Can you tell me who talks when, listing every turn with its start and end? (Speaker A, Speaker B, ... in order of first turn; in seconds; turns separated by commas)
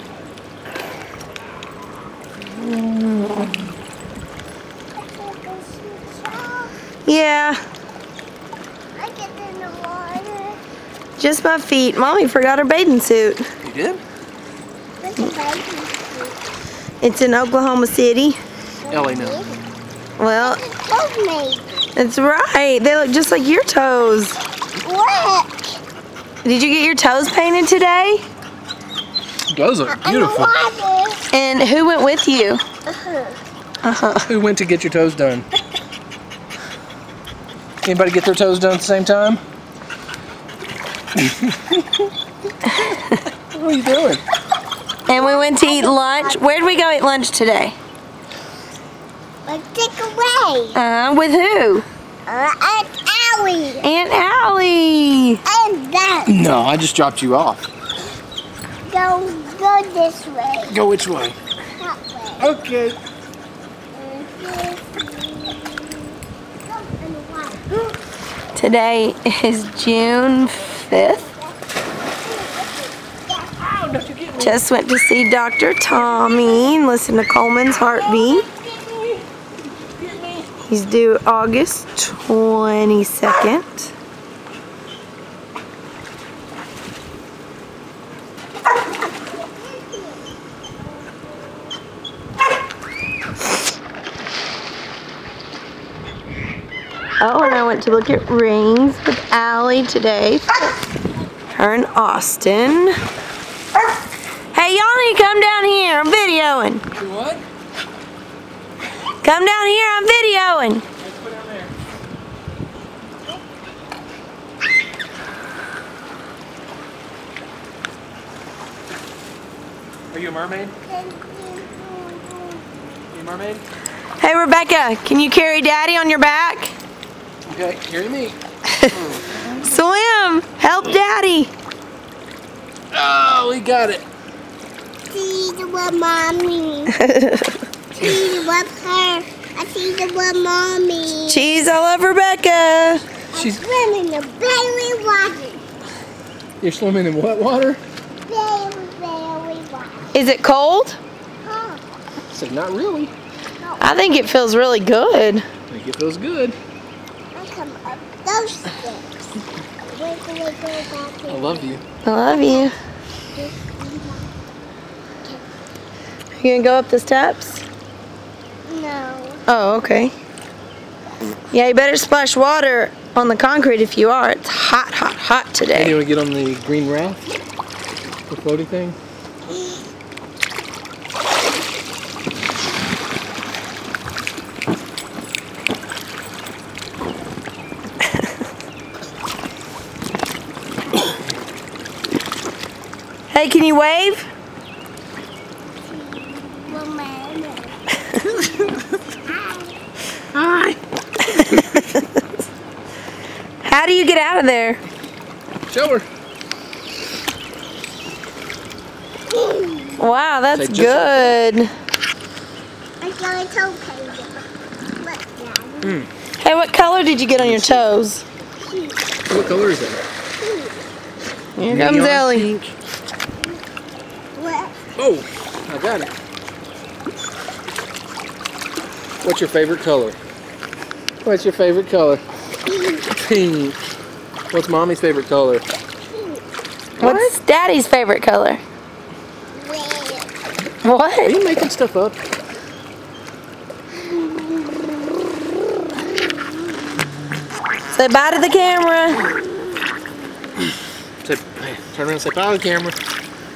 Speaker A: 4.9-6.8, Speaker B: 7.0-7.6, Speaker A: 8.9-10.6, Speaker B: 11.2-13.4, Speaker C: 13.6-14.0, Speaker A: 15.0-16.4, Speaker B: 17.0-18.4, Speaker A: 18.8-19.6, Speaker C: 18.9-19.4, Speaker B: 20.2-20.6, Speaker A: 20.4-21.9, Speaker B: 22.0-24.4, Speaker A: 24.8-25.8, Speaker B: 26.4-28.2, Speaker C: 29.5-30.5, Speaker A: 29.9-31.2, Speaker B: 31.3-32.6, Speaker A: 32.9-33.4, Speaker B: 33.8-34.3, Speaker C: 34.2-35.5, Speaker C: 37.8-39.4, Speaker C: 41.2-42.1, Speaker C: 43.5-44.2, Speaker A: 45.1-46.9, Speaker B: 45.1-47.8, Speaker A: 49.5-50.8, Speaker B: 50.8-51.9, Speaker A: 52.3-53.9, Speaker B: 53.8-55.4, Speaker A: 55.5-56.4, Speaker C: 56.3-57.7, Speaker A: 58.9-60.8, Speaker C: 60.7-61.4, Speaker A: 61.8-62.5, Speaker C: 62.4-63.0, Speaker A: 63.9-67.8, Speaker B: 68.5-71.3, Speaker A: 71.2-71.5, Speaker A: 72.1-74.0, Speaker C: 73.6-74.6, Speaker B: 74.4-78.5, Speaker A: 75.9-76.7, Speaker A: 78.5-78.8, Speaker C: 80.0-80.5, Speaker B: 80.7-83.9, Speaker A: 89.7-90.2, Speaker B: 97.2-100.5, Speaker B: 101.5-103.0, Speaker B: 104.5-106.8, Speaker C: 106.9-107.4, Speaker B: 109.2-110.8, Speaker C: 111.0-111.7, Speaker C: 120.1-120.8, Speaker A: 120.8-122.8, Speaker C: 123.1-123.6, Speaker B: 124.2-126.8, Speaker C: 127.5-128.4, Speaker C: 128.9-129.6, Speaker B: 129.6-131.5, Speaker C: 132.9-134.0, Speaker A: 135.1-137.0, Speaker B: 137.0-137.6, Speaker A: 137.9-141.6, Speaker B: 141.3-143.0, Speaker A: 143.3-145.6, Speaker C: 143.3-143.6, Speaker C: 146.6-147.8, Speaker A: 148.3-150.1, Speaker B: 150.1-151.0, Speaker A: 151.4-151.8, Speaker C: 152.3-153.1, Speaker A: 153.6-153.9, Speaker B: 153.8-155.4, Speaker C: 155.7-156.6, Speaker A: 157.3-159.3, Speaker A: 159.9-161.8, Speaker C: 161.3-161.8, Speaker B: 162.0-162.7, Speaker A: 162.3-162.7, Speaker A: 163.3-164.3, Speaker A: 165.2-165.5, Speaker B: 166.4-167.6, Speaker A: 168.7-169.4, Speaker B: 169.5-170.1, Speaker B: 171.5-176.0, Speaker C: 175.8-177.2, Speaker C: 178.3-179.0, Speaker B: 193.3-194.3, Speaker A: 195.9-197.8, Speaker C: 198.2-198.8, Speaker A: 199.2-199.8, Speaker C: 200.3-200.8, Speaker C: 201.3-201.8, Speaker B: 203.6-204.8, Speaker C: 205.7-206.1, Speaker A: 209.3-210.0, Speaker B: 210.0-211.7, Speaker C: 210.5-211.3, Speaker A: 213.0-214.4, Speaker A: 215.0-216.0, Speaker C: 215.8-216.1, Speaker B: 216.4-218.2, Speaker C: 217.4-217.9, Speaker A: 218.6-219.0, Speaker C: 219.3-220.0, Speaker A: 220.4-220.8, Speaker B: 221.6-222.5, Speaker C: 221.7-222.7, Speaker A: 224.3-224.8, Speaker C: 225.0-226.1, Speaker C: 229.2-230.2, Speaker C: 231.2-232.2, Speaker C: 233.1-233.8, Speaker C: 234.5-235.6, Speaker A: 236.1-236.4, Speaker C: 237.0-237.3, Speaker B: 237.0-238.6, Speaker A: 239.5-240.3, Speaker B: 240.8-241.3, Speaker C: 241.2-242.2, Speaker A: 244.0-245.0, Speaker B: 247.9-249.3, Speaker C: 251.2-253.0